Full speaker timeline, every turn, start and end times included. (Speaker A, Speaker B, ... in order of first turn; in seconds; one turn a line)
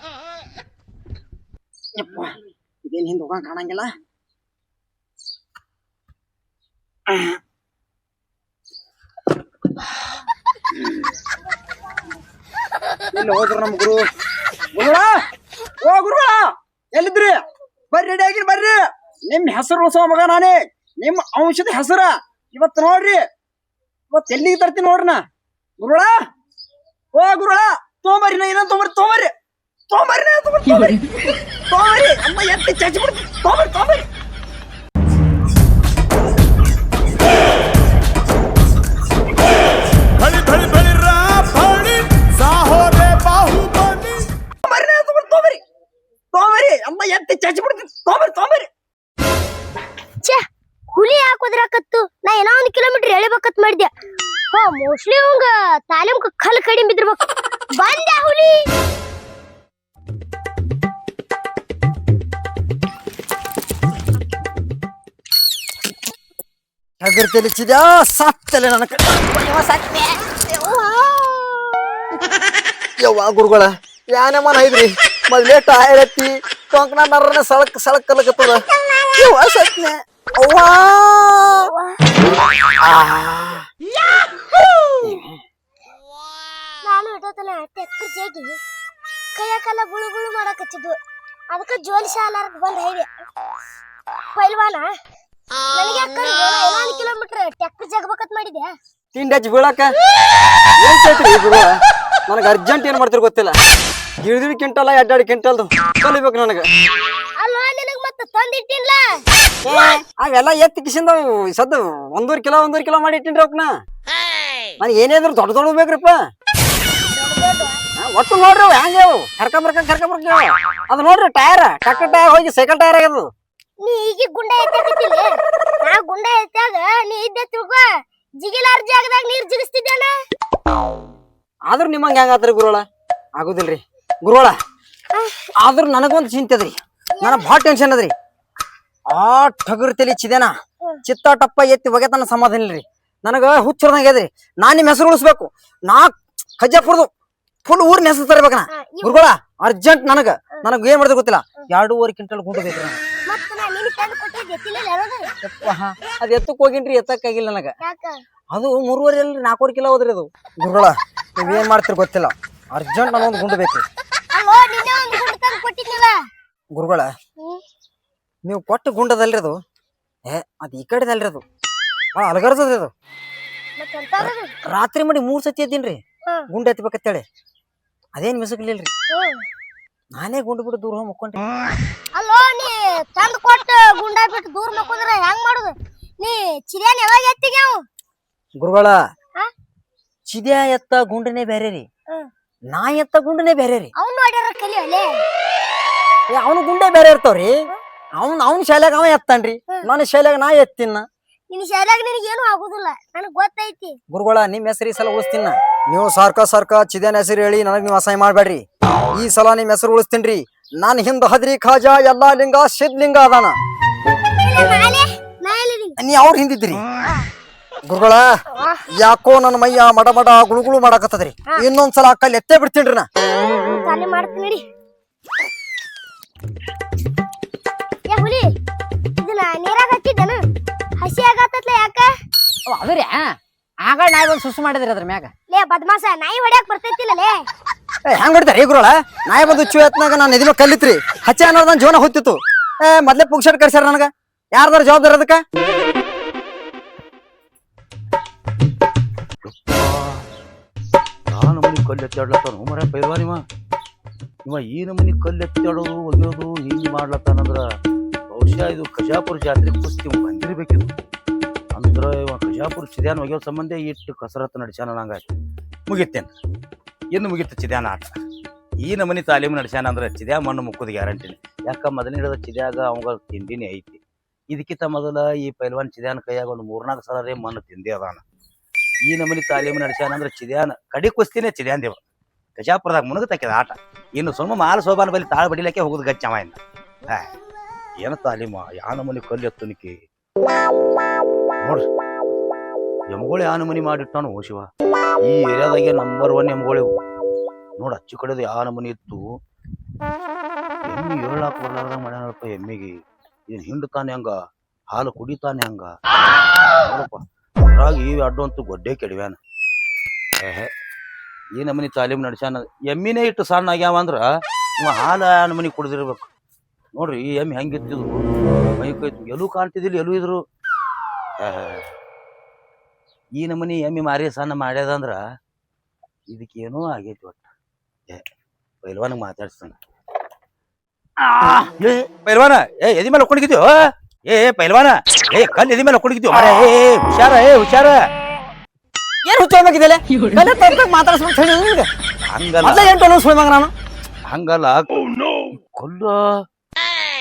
Speaker A: 1.9-3.9
Speaker A: 7.1-7.4
Speaker A: 13.1-14.0
Speaker A: 14.7-15.1
Speaker A: 15.8-17.4
Speaker A: 17.9-23.2
Speaker A: 24.1-25.2
Speaker A: 25.8-26.1
Speaker A: 27.1-29.3
Speaker A: 29.9-31.0
Speaker A: 31.7-34.0
Speaker A: 40.3-45.6
Speaker A: 46.3-48.7
Speaker B: 50.2-53.9
Speaker B: 54.5-57.2
Speaker B: 57.8-58.7
Speaker A: 67.0-71.2
Speaker B: 70.7-71.6
Speaker A: 73.0-81.7
Speaker B: 78.6-79.3
Speaker C: 83.0-83.5
Speaker A: 85.0-85.3
Speaker B: 86.8-88.6
Speaker B: 89.3-91.0
Speaker B: 91.5-93.1
Speaker B: 94.3-94.9
Speaker B: 95.7-98.7
Speaker A: 99.1-99.9
Speaker A: 100.8-103.6
Speaker A: 104.2-106.7
Speaker B: 107.4-109.2
Speaker A: 109.6-113.7
Speaker A: 114.8-116.2
Speaker B: 117.1-117.8
Speaker A: 118.0-123.3
Speaker B: 123.8-125.2
Speaker B: 125.8-130.1
Speaker A: 131.7-132.8
Speaker A: 133.4-134.5
Speaker B: 135.1-135.4
Speaker A: 135.6-138.1
Speaker B: 137.2-137.6
Speaker A: 139.1-140.5
Speaker A: 141.0-147.1
Speaker A: 147.6-153.0
Speaker B: 148.7-149.3
Speaker B: 153.3-155.3
Speaker A: 155.4-157.8
Speaker B: 157.8-158.2
Speaker A: 158.5-163.8
Speaker B: 161.4-161.7
Speaker B: 164.3-166.2
Speaker A: 166.7-167.1
Speaker A: 168.4-169.6
Speaker A: 170.3-171.4
Speaker A: 172.1-172.9
Speaker B: 173.8-174.5
Speaker A: 174.2-176.0
Speaker A: 176.5-177.2
Speaker A: 178.2-178.9
Speaker B: 179.1-179.4
Speaker A: 180.1-181.5
Speaker B: 182.1-187.8
Speaker A: 188.6-189.0
Speaker A: 190.3-191.8
Speaker A: 192.7-193.9
Speaker B: 193.9-195.2
Speaker A: 196.3-197.6
Speaker A: 198.2-201.0
Speaker B: 201.5-204.0
Speaker A: 204.1-213.6
Speaker B: 214.4-216.0
Speaker A: 216.0-216.8
Speaker A: 217.9-218.3
Speaker B: 218.5-218.8
Speaker A: 218.9-223.1
Speaker B: 223.5-224.6
Speaker B: 228.1-228.6
Speaker B: 229.2-230.4
Speaker B: 231.0-232.1
Speaker A: 232.7-235.3
Speaker B: 235.5-237.5
Speaker A: 238.0-245.4
Speaker C: 249.4-250.2
Speaker C: 251.3-253.4
Speaker C: 254.4-257.6
Speaker C: 258.3-260.9
Speaker C: 261.7-265.3
Speaker C: 265.9-266.3
Speaker C: 267.1-268.2
Speaker C: 268.8-278.2
Speaker C: 279.1-282.0
Speaker C: 282.6-286.6
Speaker C: 288.0-290.0
Speaker C: 293.1-294.7
Speaker C: 295.2-296.9
Speaker C: 297.8-299.3
Speaker C: 300.9-303.0
Speaker C: 303.5-304.3
Speaker C: 304.9-305.9
Speaker C: 306.8-309.4
Speaker C: 310.4-310.7
Speaker C: 311.5-314.2
Speaker C: 314.8-316.3
Speaker C: 316.9-320.4
Speaker C: 321.4-321.8
Speaker C: 323.4-325.2
Speaker C: 326.3-327.4
Speaker C: 328.8-329.8
Speaker A: 331.2-331.7
Speaker C: 331.8-333.7
Speaker C: 334.3-338.0
Speaker A: 339.2-341.9
Speaker C: 342.3-342.9
Speaker A: 342.6-343.7
Speaker C: 344.3-344.9
Speaker C: 345.5-346.2